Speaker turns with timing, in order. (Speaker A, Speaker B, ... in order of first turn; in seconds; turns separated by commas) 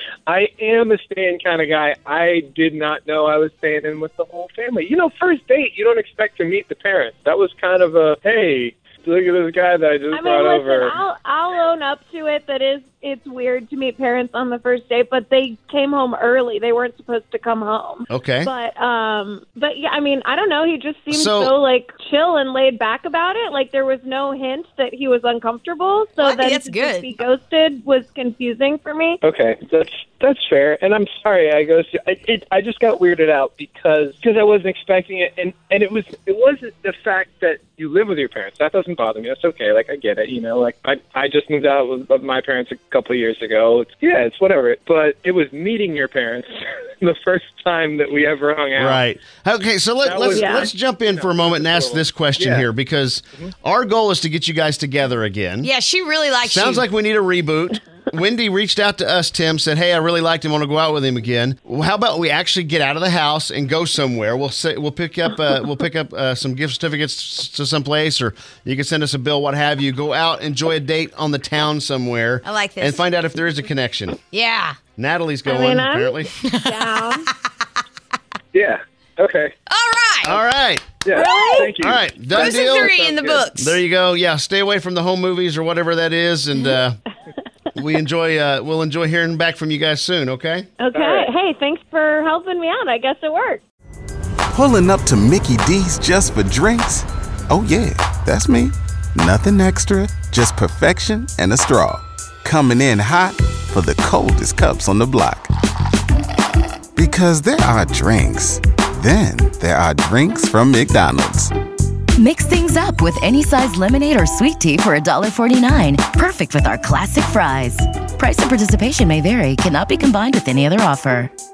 Speaker A: 0.3-11.0, Speaker B: 10.1-29.2, Speaker C: 18.1-18.5, Speaker C: 21.1-21.5, Speaker D: 26.2-27.1, Speaker A: 29.2-49.0, Speaker C: 48.8-55.7, Speaker A: 50.0-52.7, Speaker B: 50.4-50.7, Speaker D: 55.6-56.8, Speaker C: 56.4-74.2, Speaker D: 72.4-73.0, Speaker D: 74.3-74.8, Speaker C: 75.0-76.3, Speaker B: 75.5-77.3, Speaker D: 76.5-77.2, Speaker A: 78.5-79.5, Speaker D: 79.7-80.4, Speaker C: 80.2-81.0, Speaker A: 81.0-83.4, Speaker B: 81.1-81.9, Speaker C: 81.6-83.0, Speaker D: 82.3-83.8, Speaker C: 83.5-87.0, Speaker C: 87.8-90.7, Speaker B: 90.8-93.6, Speaker A: 90.9-91.3, Speaker E: 94.5-105.5, Speaker E: 107.0-111.5, Speaker F: 112.2-121.3